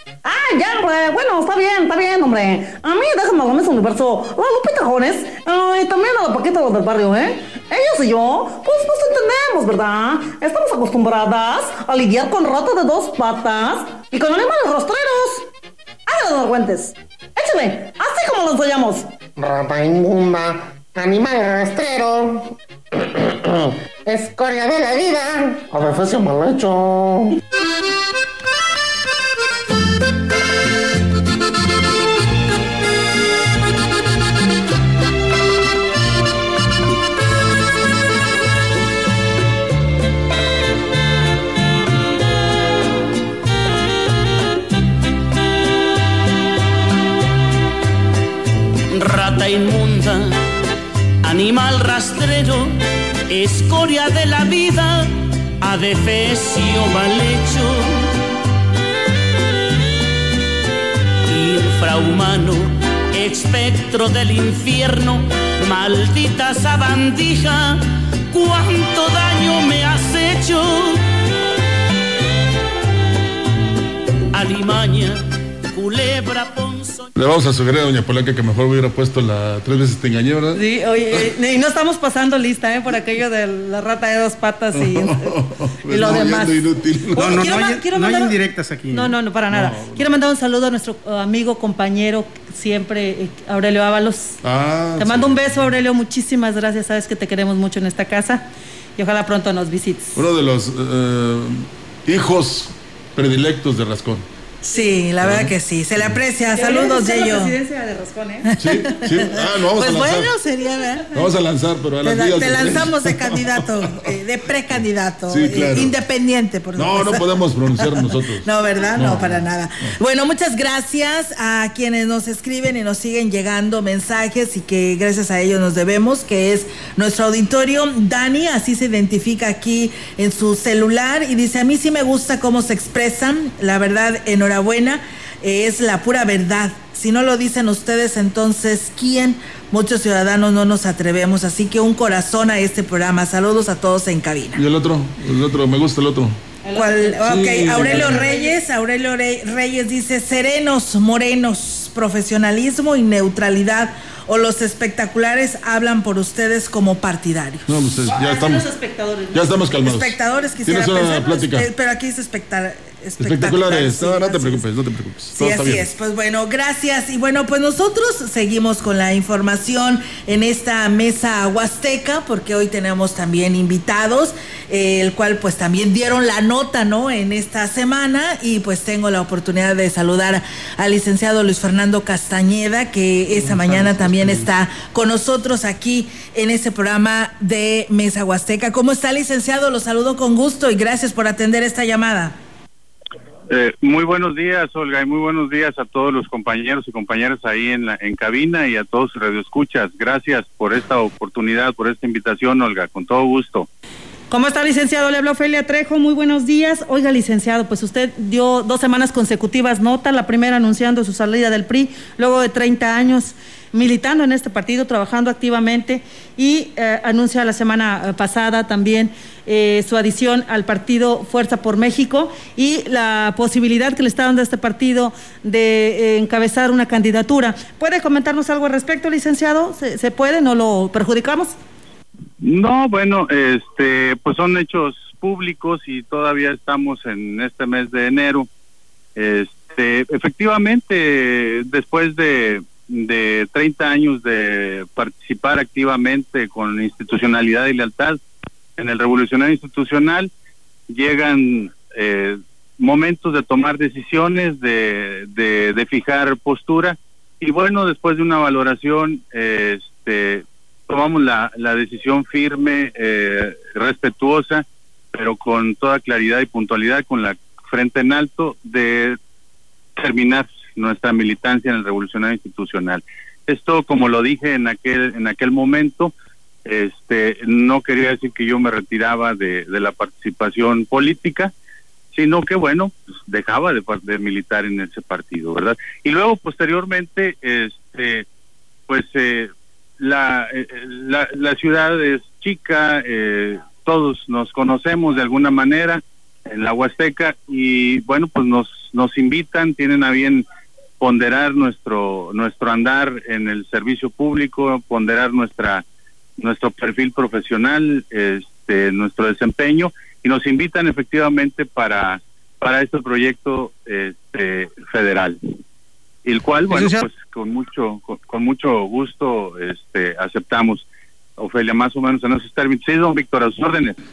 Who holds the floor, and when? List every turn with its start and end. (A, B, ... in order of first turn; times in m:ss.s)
0:00.2-0:15.5 A
0:16.1-0:19.1 A
0:19.4-0:27.4 B
0:48.9-0:50.4 C
0:51.2-0:52.7 C
0:53.3-0:58.0 C
1:01.3-1:11.0 C
1:14.3-1:15.2 C
1:15.7-1:17.1 C
1:17.2-1:20.6 D
1:20.5-1:25.2 E
1:24.7-1:27.5 D
1:25.9-1:26.6 E
1:27.1-1:28.4 E
1:27.2-1:29.1 F
1:28.9-1:34.4 E
1:29.5-1:30.1 D
1:34.4-1:35.7 D
1:35.0-1:38.4 E
1:39.0-1:40.2 E
1:40.1-1:44.2 D
1:44.6-1:47.5 G
1:45.2-1:46.2 D
1:46.5-1:48.4 E
1:48.4-1:51.1 G
1:48.6-1:50.3 D
1:51.1-1:53.6 D
1:52.0-2:24.6 G
1:55.3-1:55.9 D
1:56.8-1:59.5 D
2:24.6-2:26.4 D
2:26.6-2:28.6 E
2:26.7-2:37.7 G
2:27.2-2:28.2 D
2:37.7-2:38.6 D
2:38.1-2:39.6 E
2:39.3-2:41.7 D
2:39.8-2:44.6 G
2:43.2-2:45.9 D
2:45.4-3:12.4 G
3:13.5-3:23.7 H
3:24.3-3:51.6 E
3:52.4-3:58.5 H
3:59.2-4:08.2 H
4:08.8-4:10.3 H
4:10.9-4:29.2 H
4:30.0-4:36.1 H
4:36.6-4:41.5 H
4:42.1-4:48.2 H
4:48.9-5:00.4 H
5:01.0-5:05.8 H
5:06.4-5:15.4 H
5:16.2-5:20.9 H
5:16.7-5:17.0 F
5:21.4-5:24.0 H